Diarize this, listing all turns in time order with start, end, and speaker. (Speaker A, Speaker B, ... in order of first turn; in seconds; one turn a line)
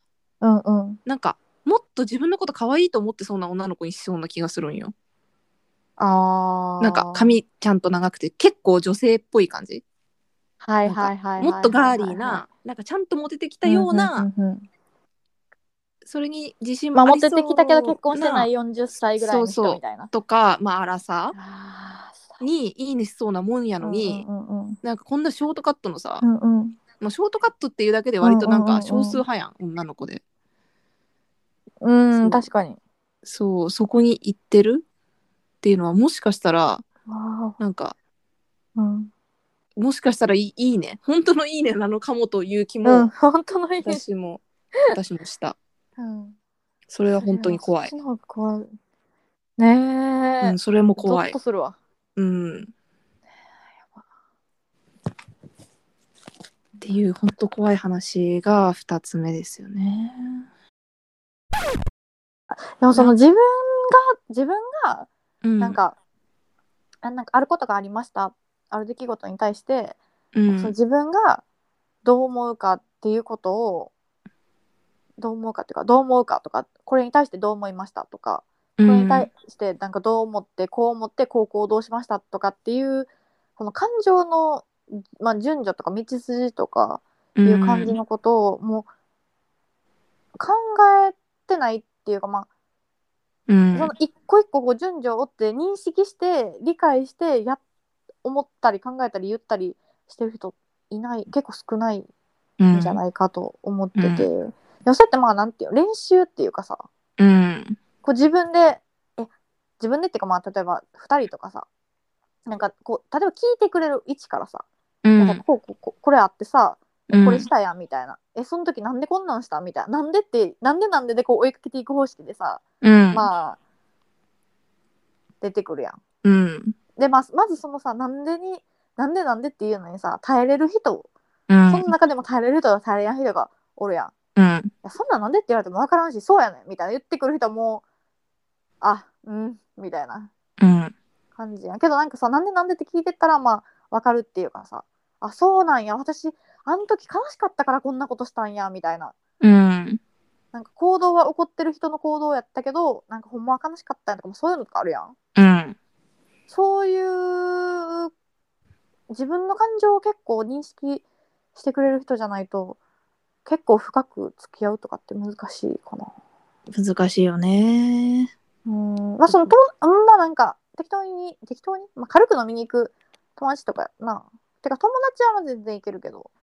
Speaker A: 0.4-1.0
Speaker B: 1.1-4.9
Speaker A: 6.0-7.3
Speaker B: 6.8-9.8
Speaker A: 10.6-12.4
Speaker B: 10.8-14.3
Speaker A: 13.6-14.7
Speaker B: 16.1-18.5
Speaker A: 16.9-20.1
Speaker B: 19.2-21.3
Speaker A: 21.3-22.4
Speaker B: 22.4-24.2
Speaker A: 23.8-24.8
Speaker B: 24.8-26.2
Speaker A: 26.2-26.8
Speaker B: 27.0-30.2
Speaker A: 28.2-29.2
Speaker A: 31.8-32.8
Speaker B: 32.1-32.5
Speaker B: 33.2-34.8
Speaker B: 35.6-36.8
Speaker A: 37.1-37.6
Speaker B: 37.6-38.0
Speaker A: 38.8-39.1
Speaker B: 39.8-43.1
Speaker A: 42.8-44.0
Speaker B: 43.8-45.5
Speaker A: 46.0-46.4
Speaker B: 46.9-47.9
Speaker A: 47.2-48.7
Speaker A: 49.6-51.8
Speaker B: 50.4-51.4
Speaker B: 52.1-52.7
Speaker B: 56.8-60.5
Speaker A: 62.8-66.0
Speaker B: 65.4-65.8
Speaker A: 67.0-70.0
Speaker B: 70.3-70.7
Speaker A: 70.5-71.4
Speaker A: 72.0-73.9
Speaker A: 75.2-88.9
Speaker B: 78.8-79.3
Speaker B: 87.4-88.0
Speaker A: 90.4-92.5
Speaker B: 93.5-93.9
Speaker A: 93.7-97.6
Speaker A: 98.2-102.1
Speaker B: 102.6-103.0
Speaker A: 102.7-106.9
Speaker B: 104.0-104.3
Speaker B: 107.2-107.8
Speaker A: 108.0-111.7
Speaker A: 112.5-114.6
Speaker B: 115.0-115.4
Speaker A: 115.2-123.6
Speaker B: 117.1-117.5
Speaker B: 122.8-123.3
Speaker A: 125.4-126.0
Speaker B: 126.2-126.7
Speaker A: 127.0-131.1
Speaker B: 131.5-131.9
Speaker A: 131.7-134.1
Speaker B: 134.3-134.7
Speaker A: 134.8-137.8
Speaker A: 138.8-140.3
Speaker B: 140.6-140.9
Speaker A: 141.4-149.1
Speaker B: 149.4-150.0
Speaker A: 150.5-155.2
Speaker B: 155.3-155.8
Speaker A: 156.5-158.1
Speaker A: 159.1-161.0
Speaker A: 161.5-162.8
Speaker A: 163.4-166.1
Speaker B: 166.7-168.3
Speaker A: 168.7-176.3
Speaker B: 169.3-169.5